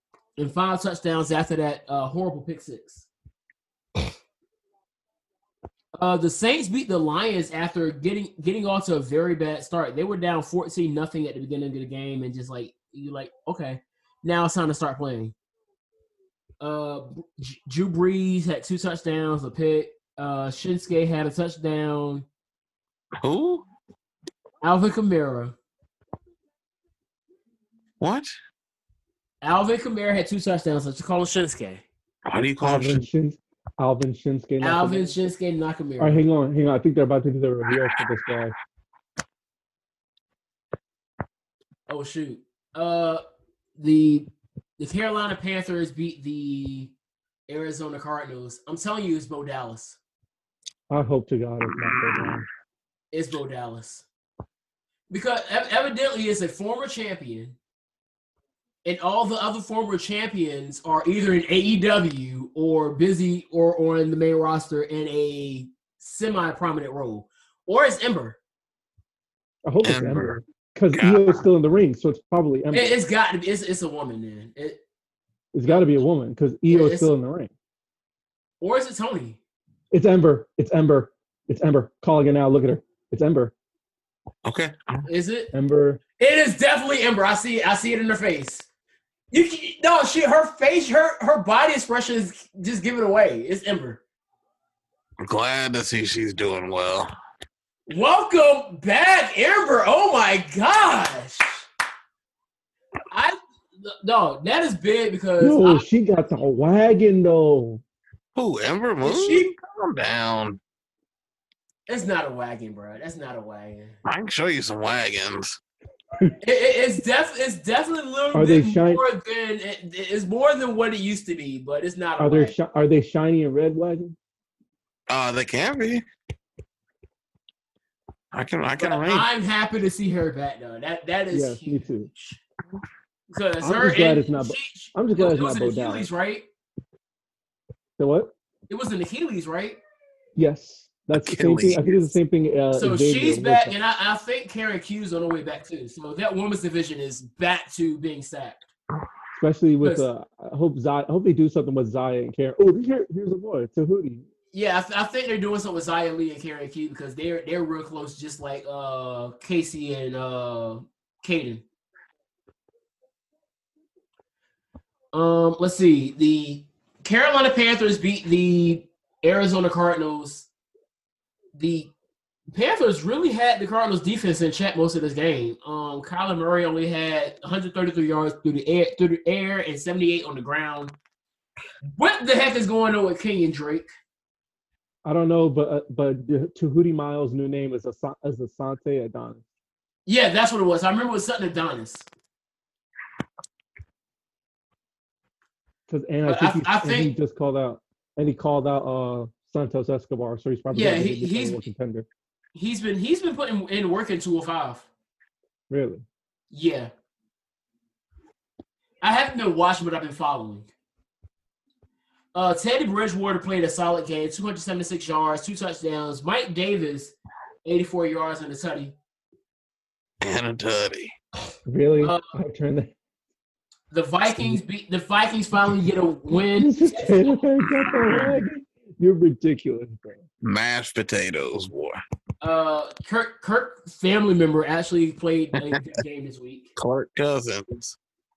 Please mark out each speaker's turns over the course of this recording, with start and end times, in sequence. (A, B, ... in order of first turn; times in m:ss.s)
0:00.4-0:03.1 A
0:06.0-0:15.3 A
0:16.6-0:22.3 A
0:23.2-0:23.6 B
0:24.6-0:25.6 A
0:28.0-0:28.3 B
0:29.4-0:31.8 A
0:32.3-0:33.0 B
0:32.6-0:35.2 C
0:34.6-0:36.2 A
0:36.0-0:38.6 C
0:41.9-0:43.2 A
0:43.8-0:46.9 A
0:47.5-0:50.0 A
0:50.9-0:52.4 C
0:53.1-0:54.1 A
0:55.1-0:57.6 A
0:58.8-1:08.4 A
1:09.7-1:13.0 C
1:09.8-1:10.4 B
1:10.9-1:11.4 B
1:12.7-1:14.8 A
1:15.5-1:17.5 C
1:16.7-1:17.1 A
1:18.6-1:19.4 A
1:19.9-1:23.5 C
1:24.4-1:25.1 B
1:25.1-1:25.5 A
1:25.5-1:26.0 C
1:26.2-1:28.7 A
1:29.3-1:34.0 A
1:35.2-1:37.1 B
1:37.9-1:41.7 A
1:43.1-1:45.9 A
1:45.4-1:47.8 C
1:48.4-1:50.6 B
1:49.0-1:49.5 A
1:51.9-1:54.0 A
1:54.1-1:55.6 B
1:56.4-2:02.6 A
1:58.3-1:59.0 C
2:02.2-2:04.2 C
2:05.1-2:06.0 B
2:08.3-2:09.3 B
2:08.8-2:12.4 A
2:11.3-2:12.1 C
2:13.3-2:16.5 A
2:13.6-2:16.1 C
2:18.0-2:18.3 C
2:18.7-2:19.8 A
2:20.4-2:23.8 C
2:21.1-2:22.1 B
2:22.8-2:28.7 A
2:29.3-2:34.2 C
2:34.5-2:41.6 A
2:45.1-2:50.5 A
2:51.6-2:51.9 A
2:52.5-3:00.9 A
3:02.0-3:03.9 A
3:05.0-3:09.4 C
3:10.1-3:12.1 A
3:15.9-3:22.1 C
3:16.3-3:17.1 A
3:20.7-3:21.7 A
3:22.6-3:24.9 A
3:25.7-3:26.0 C
3:26.5-3:26.9 A
3:29.0-3:30.7 A
3:32.3-3:39.0 A
3:40.2-3:41.1 B
3:41.7-3:42.9 C
3:42.0-3:42.3 A
3:43.9-3:47.4 A
3:46.4-3:50.2 C
3:50.4-3:52.0 B
3:52.4-3:56.7 A
3:56.8-3:58.0 B